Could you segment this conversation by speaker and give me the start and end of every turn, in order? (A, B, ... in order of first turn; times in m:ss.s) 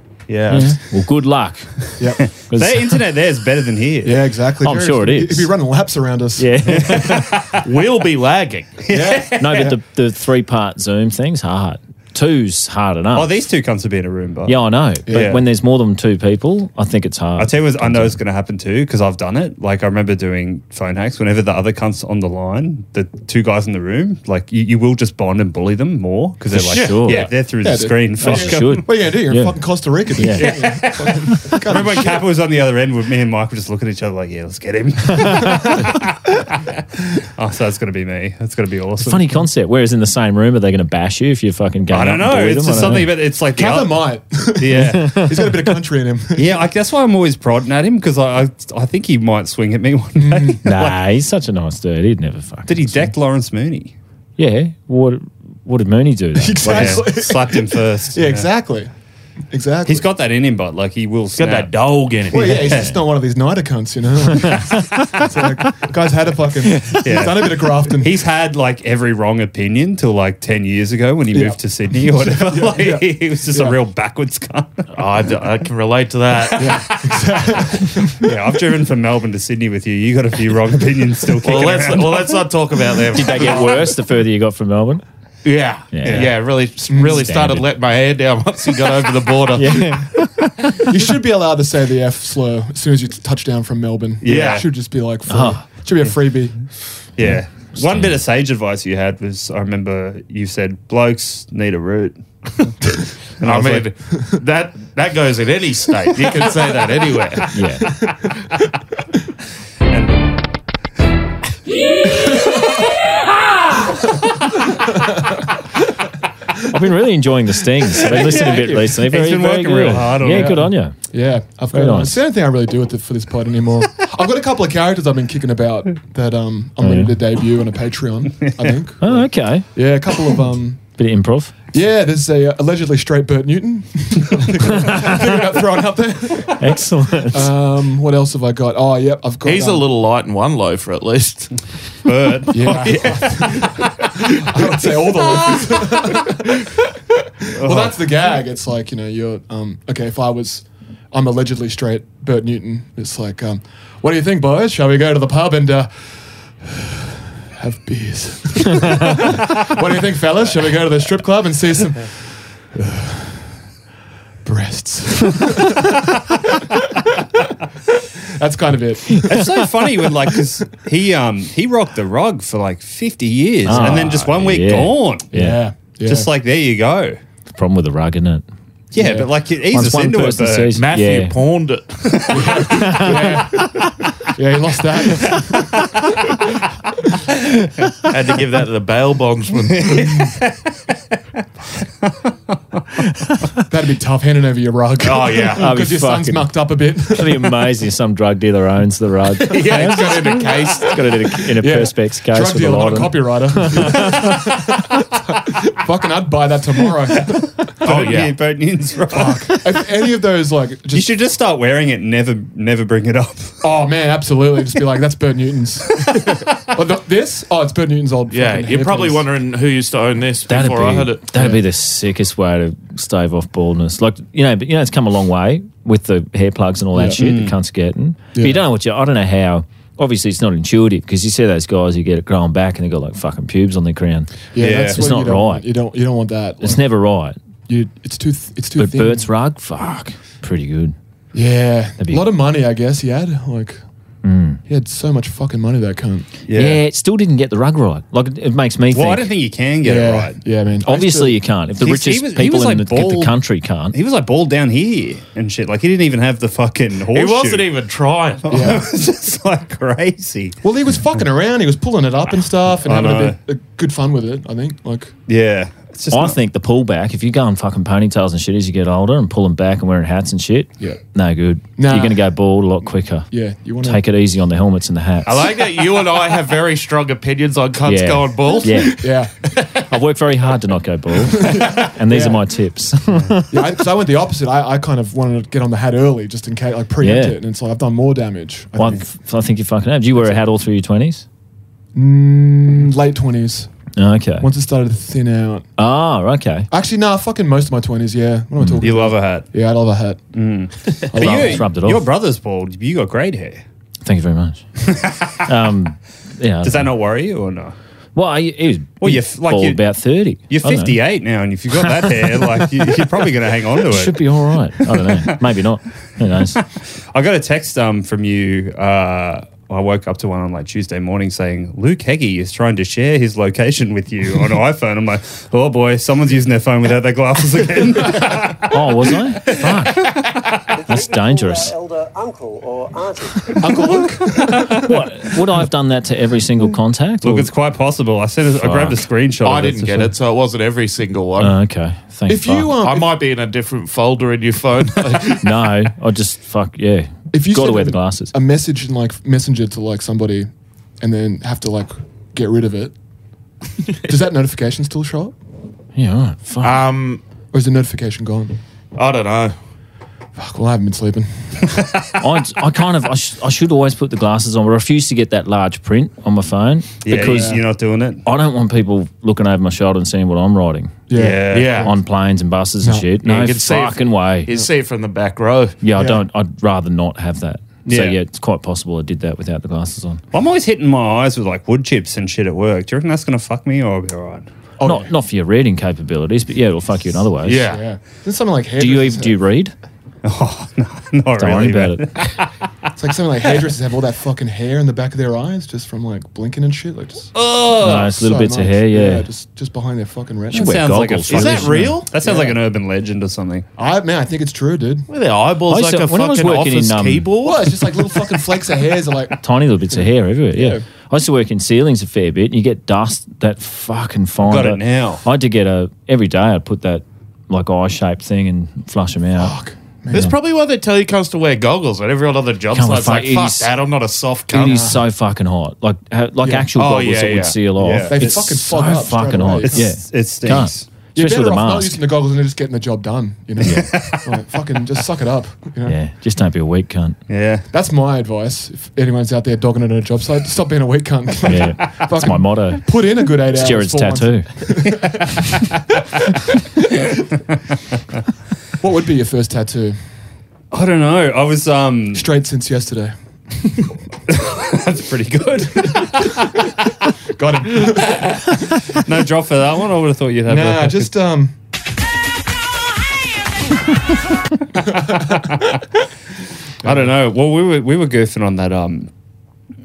0:00.3-0:00.8 A
0:00.5-0:03.0 B
0:02.0-0:02.2 C
0:02.4-0:04.2 A
0:04.0-0:07.3 C
0:04.6-0:05.6 B
0:06.4-0:07.4 B
0:07.6-0:08.8 D
0:08.8-0:09.7 A
0:08.9-0:09.8 C
0:09.4-0:13.4 B
0:13.2-0:15.4 A
0:14.5-0:18.2 B
0:15.1-0:15.4 C
0:17.4-0:28.8 A
0:26.5-0:27.3 B
0:26.7-0:27.2 D
0:27.6-0:32.2 C
0:28.2-0:30.9 B
0:30.4-0:36.0 A
0:37.4-0:39.4 A
0:39.0-0:43.1 B
0:41.9-0:45.3 A
0:43.5-0:46.6 C
0:44.8-0:45.6 B
0:46.4-0:50.9 A
0:50.2-0:50.7 C
0:50.6-0:53.1 B
0:52.7-0:54.0 A
0:54.4-0:57.2 B
0:56.4-0:58.9 C
0:56.7-0:58.5 A
0:59.5-1:00.0 C
0:59.9-1:01.7 A
1:01.4-1:02.8 D
1:02.3-1:08.2 C
1:04.4-1:05.0 B
1:06.7-1:07.0 B
1:07.0-1:14.9 A
1:11.3-1:13.8 C
1:14.9-1:16.8 D
1:16.6-1:18.3 C
1:16.8-1:17.1 A
1:18.2-1:22.4 A
1:21.4-1:23.8 D
1:23.1-1:25.0 B
1:25.4-1:30.0 D
1:25.9-1:27.7 B
1:26.0-1:26.3 A
1:26.9-1:27.3 C
1:29.5-1:30.8 B
1:30.8-1:36.7 C
1:34.2-1:34.7 A
1:34.3-1:34.6 D
1:35.3-1:35.6 B
1:37.2-1:42.7 A
1:37.8-1:38.2 B
1:43.4-1:47.5 D
1:43.5-1:44.2 C
1:47.5-1:48.1 B
1:47.6-1:48.0 C
1:49.9-1:50.4 A
1:54.7-1:55.6 C
1:56.7-2:01.0 B
1:58.0-2:00.6 A
1:58.1-1:58.8 C
2:00.3-2:10.8 C
2:01.7-2:02.2 B
2:06.8-2:07.2 B
2:09.0-2:09.7 B
2:11.0-2:11.5 B
2:11.7-2:16.7 C
2:14.8-2:15.3 B
2:16.6-2:17.5 B
2:17.2-2:19.8 C
2:19.4-2:21.6 D
2:22.0-2:23.7 A
2:22.5-2:43.6 C
2:27.6-2:28.0 A
2:44.4-2:47.2 C
2:48.4-2:49.4 C
2:49.2-2:55.3 A
2:53.6-2:55.6 B
2:53.7-2:54.0 C
2:55.3-2:56.3 C
2:56.0-2:57.2 A
2:57.5-2:58.4 B
2:58.9-3:00.7 A
2:59.0-2:59.3 C
2:59.7-3:01.4 B
3:00.7-3:02.6 D
3:02.1-3:02.4 A
3:02.3-3:06.3 C
3:02.7-3:03.9 B
3:08.1-3:10.3 D
3:09.8-3:12.8 A
3:13.7-3:17.5 C
3:15.0-3:15.7 D
3:15.6-3:24.6 B
3:19.5-3:21.0 D
3:19.8-3:20.4 C
3:21.4-3:27.8 C
3:27.8-3:29.6 A
3:27.8-3:28.4 D
3:29.1-3:31.1 C
3:30.9-3:33.6 A
3:33.6-3:39.2 C
3:38.3-3:41.3 D
3:40.5-3:55.7 B
3:41.4-3:41.6 C
3:46.9-3:47.2 C
3:47.2-3:47.6 A
3:48.4-3:48.6 C
3:54.5-3:56.8 C
3:54.6-3:55.0 A
3:56.6-3:57.4 B
3:57.7-3:59.2 C
3:58.8-4:01.0 B
4:01.3-4:03.8 C
4:02.0-4:02.3 B
4:04.2-4:04.6 B
4:04.7-4:06.3 C
4:06.5-4:06.8 A
4:06.5-4:09.3 B
4:08.9-4:10.4 A
4:09.8-4:11.4 C
4:10.8-4:14.0 B
4:11.8-4:13.4 A
4:13.9-4:17.7 A
4:17.1-4:18.5 D
4:18.4-4:20.6 A
4:18.5-4:18.9 C
4:20.6-4:25.1 C
4:22.8-4:23.4 A
4:25.3-4:26.4 A
4:26.1-4:33.3 B
4:31.8-4:32.3 C
4:33.3-4:34.0 C
4:33.8-4:35.5 B
4:35.2-4:39.7 D
4:37.8-4:39.1 B
4:39.0-4:39.3 C
4:39.9-4:43.8 B
4:41.2-4:42.4 C
4:43.1-4:43.4 A
4:43.5-4:49.1 C
4:47.0-4:47.4 B
4:48.8-4:51.2 B
4:51.9-4:53.7 C
4:54.0-4:54.5 B
4:54.4-4:55.7 C
4:55.8-4:56.7 B
4:56.7-5:00.3 C
4:58.6-4:58.9 B
4:58.8-4:59.5 A
5:00.3-5:03.6 A
5:01.1-5:01.7 C
5:01.1-5:02.1 B
5:04.0-5:04.9 B
5:05.0-5:05.4 A
5:05.4-5:06.9 B
5:06.6-5:07.8 A
5:08.2-5:11.0 B
5:09.0-5:09.8 A
5:10.5-5:15.3 A
5:11.7-5:12.8 B
5:13.8-5:16.6 B
5:16.8-5:30.4 A
5:28.6-5:30.2 B
5:30.7-5:33.7 E
5:30.9-5:31.7 B
5:33.6-5:34.8 C
5:33.8-5:34.9 A
5:34.8-5:37.5 B
5:37.2-5:40.1 A
5:38.6-5:39.1 B
5:39.4-5:41.5 D
5:41.4-5:42.8 B
5:42.3-5:43.1 C
5:42.8-5:45.5 D
5:45.4-5:48.3 B
5:47.3-5:52.9 C
5:54.0-5:55.4 C
5:56.0-5:56.9 B
5:56.6-5:57.2 D
5:57.5-5:58.6 C
5:59.0-5:59.6 D
6:00.4-6:01.8 C
6:02.2-6:07.6 B
6:07.0-6:08.2 A
6:07.1-6:07.6 C
6:08.2-6:11.0 B
6:11.1-6:11.9 C
6:11.1-6:11.8 A
6:11.5-6:11.9 D
6:11.8-6:14.5 B
6:12.8-6:13.1 C
6:13.2-6:15.8 D
6:15.8-6:20.2 B
6:16.0-6:16.2 C
6:17.9-6:18.2 A
6:20.3-6:24.5 A
6:24.8-6:25.1 C
6:24.8-6:27.8 B
6:27.4-6:27.8 D
6:27.6-6:29.4 C
6:28.8-6:29.7 B
6:30.2-6:32.5 A
6:31.4-6:32.2 B
6:33.0-6:41.0 C
6:37.4-6:38.0 A
6:37.8-6:39.3 B
6:40.5-6:42.0 B
6:40.5-6:43.7 A
6:41.3-6:42.1 D
6:42.2-6:42.6 C
6:43.8-6:45.1 C
6:45.1-6:47.9 D
6:45.7-6:47.3 B
6:47.4-6:49.4 C
6:49.4-6:59.6 B
6:49.9-6:50.8 C
6:54.4-6:55.2 A
6:59.4-7:00.3 C
7:00.1-7:04.9 D
7:02.7-7:03.7 B
7:04.5-7:12.0 B
7:04.6-7:05.0 C
7:06.4-7:06.7 C
7:06.8-7:07.6 D
7:07.8-7:08.4 A
7:08.1-7:09.9 C
7:09.7-7:10.9 A
7:11.2-7:16.0 C
7:13.6-7:13.9 B
7:13.7-7:14.3 A
7:15.8-7:17.2 B
7:17.3-7:17.7 A
7:17.7-7:25.5 C
7:21.4-7:24.5 B
7:28.8-7:30.0 C
7:30.7-7:32.3 A
7:32.1-7:33.9 C
7:34.3-7:36.4 A
7:37.3-7:38.8 C
7:38.1-7:41.2 A
7:40.5-7:41.6 C
7:44.8-7:45.5 C
7:46.8-7:49.1 A
7:46.8-7:47.1 C